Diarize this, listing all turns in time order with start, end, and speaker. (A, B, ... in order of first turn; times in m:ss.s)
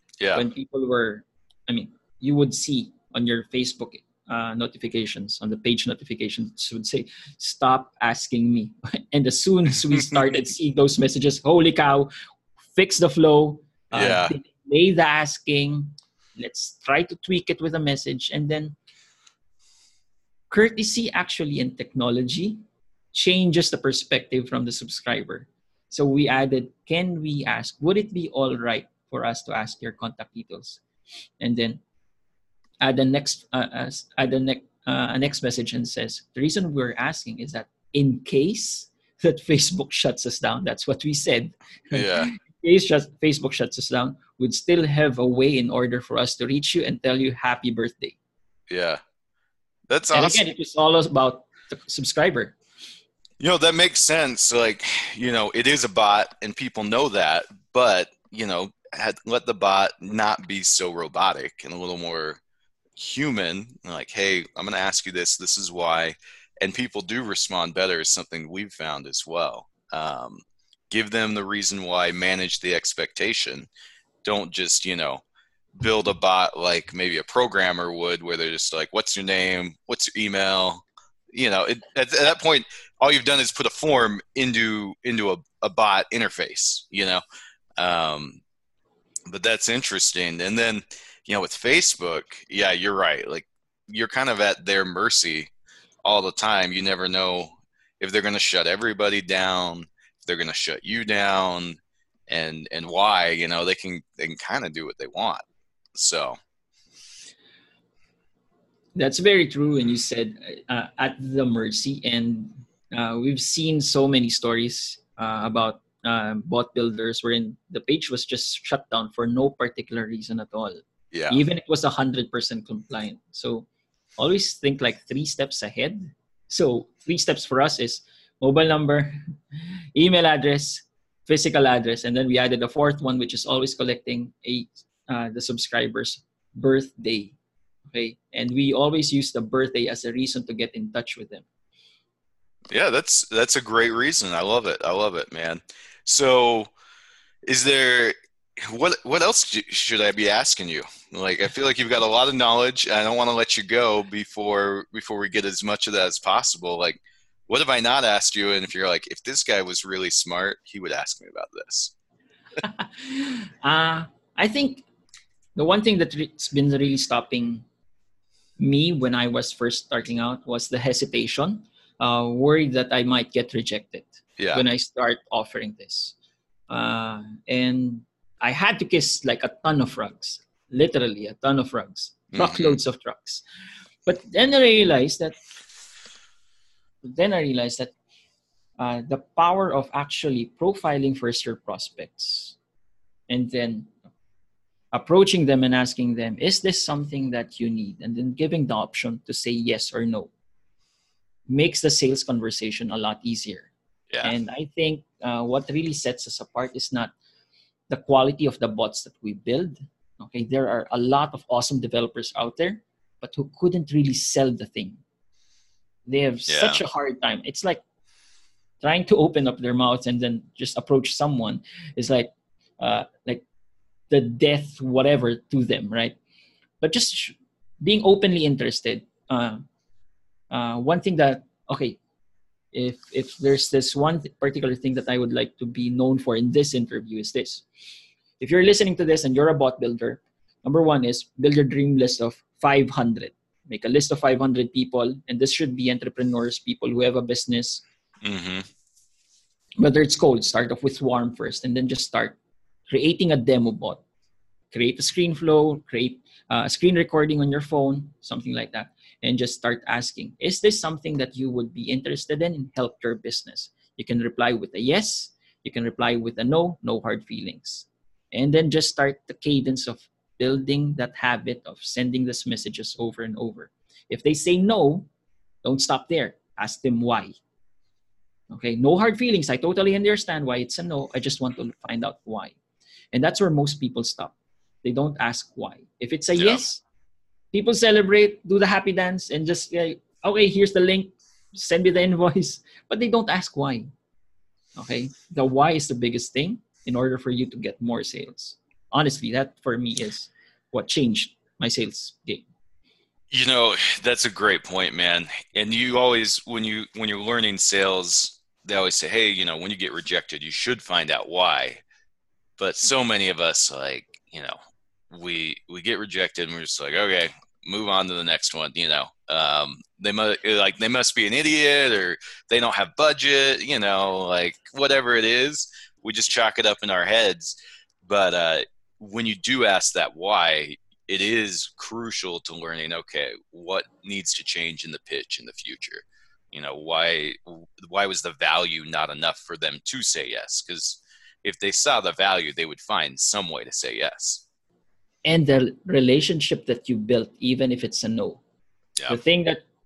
0:00.2-0:00.4 A
0:00.3-0:12.1 B
0:12.7-0:18.8 B
0:13.9-0:14.4 A
0:20.5-0:22.6 B
0:23.1-0:30.8 B
0:31.4-0:31.8 B
0:32.8-0:48.2 B
0:41.9-0:42.3 A
0:48.7-0:49.0 A
0:49.9-0:50.4 A
0:50.1-0:52.6 B
0:53.4-1:02.4 A
1:03.0-1:13.7 A
1:14.2-1:15.2 A
1:15.8-1:27.2 A
1:27.8-1:28.4 A
1:29.3-1:35.5 A
1:36.0-1:45.4 A
1:46.0-1:46.4 A
1:49.0-2:09.2 B
2:01.1-2:01.4 A
2:10.0-2:17.4 B
2:17.9-2:21.5 B
2:22.7-2:26.7 A
2:27.5-2:41.9 A
2:42.6-2:44.8 B
2:45.6-2:47.7 B
2:48.6-2:56.2 B
2:54.4-2:54.6 A
2:56.7-3:03.4 B
3:02.3-3:02.8 A
3:04.1-3:05.4 B
3:07.0-3:07.9 B
3:08.8-3:12.6 B
3:13.3-3:14.0 B
3:14.9-3:20.3 B
3:21.5-3:23.7 B
3:24.2-3:27.1 B
3:27.9-3:35.0 B
3:36.1-3:37.8 B
3:36.5-3:36.8 A
3:38.8-3:43.4 B
3:44.1-3:46.2 B
3:46.8-3:49.6 B
3:50.5-3:52.0 B
3:52.7-3:57.6 B
3:58.4-4:07.8 B
4:08.2-4:08.6 A
4:09.8-4:14.0 B
4:14.7-4:35.1 B
4:35.6-4:37.4 B
4:38.5-4:42.6 B
4:43.1-4:46.8 B
4:46.4-4:46.6 A
4:47.5-4:53.9 B
4:54.8-5:02.4 B
5:03.3-5:11.8 A
5:12.6-5:14.6 A
5:15.1-5:44.4 A
5:45.2-5:48.4 B
5:49.1-5:49.6 B